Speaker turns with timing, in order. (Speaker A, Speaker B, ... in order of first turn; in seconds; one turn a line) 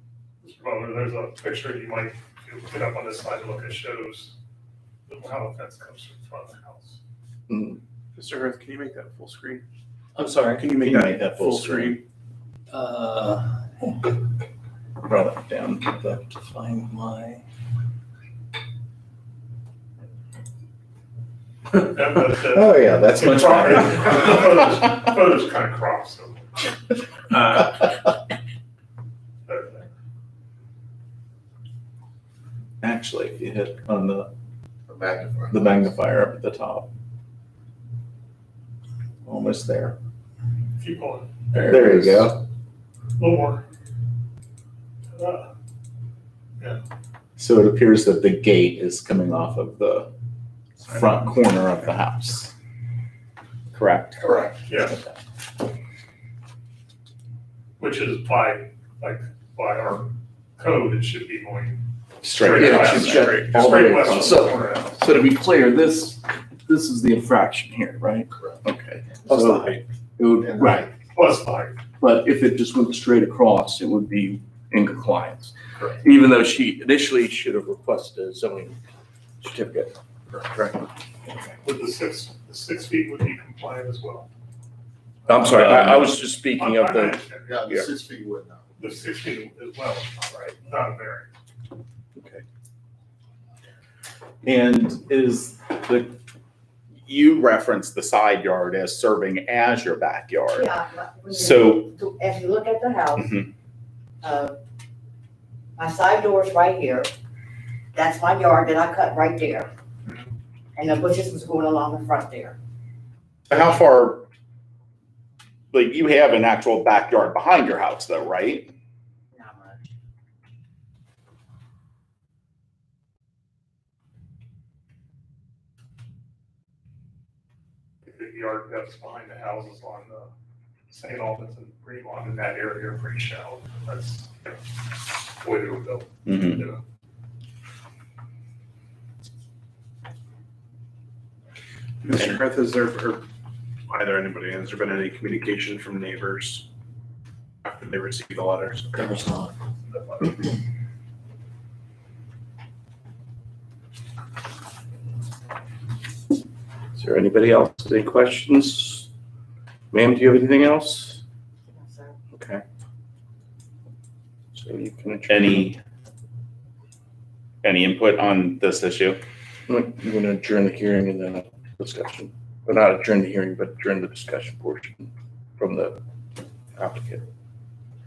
Speaker A: 0.4-4.3
Speaker A: 5.1-7.0
Speaker B: 7.5-7.8
Speaker C: 8.2-9.6
Speaker D: 10.2-11.3
Speaker C: 10.2-12.0
Speaker E: 10.8-12.0
Speaker D: 12.7-14.1
Speaker E: 15.1-15.4
Speaker D: 15.8-17.4
Speaker A: 21.7-26.8
Speaker E: 22.7-24.3
Speaker A: 29.5-29.9
Speaker E: 32.8-34.3
Speaker F: 34.9-35.8
Speaker E: 35.5-36.9
Speaker E: 39.2-40.0
Speaker A: 40.8-41.5
Speaker E: 41.5-42.4
Speaker A: 43.2-43.6
Speaker A: 45.1-45.5
Speaker E: 47.4-50.1
Speaker E: 50.8-52.5
Speaker E: 53.7-54.3
Speaker F: 54.2-54.6
Speaker A: 54.7-55.0
Speaker A: 57.8-65.1
Speaker E: 62.2-63.3
Speaker B: 62.6-70.9
Speaker C: 63.4-63.9
Speaker F: 70.5-70.9
Speaker A: 71.1-71.8
Speaker B: 72.0-78.8
Speaker B: 79.4-80.8
Speaker A: 81.6-84.3
Speaker B: 85.3-87.2
Speaker A: 85.4-87.7
Speaker F: 87.5-88.7
Speaker A: 88.8-91.3
Speaker B: 92.2-92.4
Speaker E: 94.4-96.2
Speaker E: 97.0-100.7
Speaker G: 100.5-103.3
Speaker E: 101.3-101.9
Speaker E: 103.2-103.5
Speaker G: 104.2-104.6
Speaker G: 105.8-107.1
Speaker G: 107.9-109.7
Speaker G: 110.8-112.6
Speaker E: 113.5-114.3
Speaker E: 115.7-118.7
Speaker G: 119.3-119.9
Speaker A: 128.1-130.3
Speaker A: 130.9-136.8
Speaker E: 136.3-136.6
Speaker C: 142.0-143.2
Speaker C: 143.9-146.7
Speaker C: 147.7-149.1
Speaker D: 149.0-149.5
Speaker B: 156.9-159.1
Speaker B: 159.9-161.2
Speaker G: 161.7-162.2
Speaker B: 162.3-162.6
Speaker B: 164.5-165.7
Speaker E: 165.3-165.8
Speaker E: 167.6-169.2
Speaker B: 169.7-176.0
Speaker B: 176.8-177.2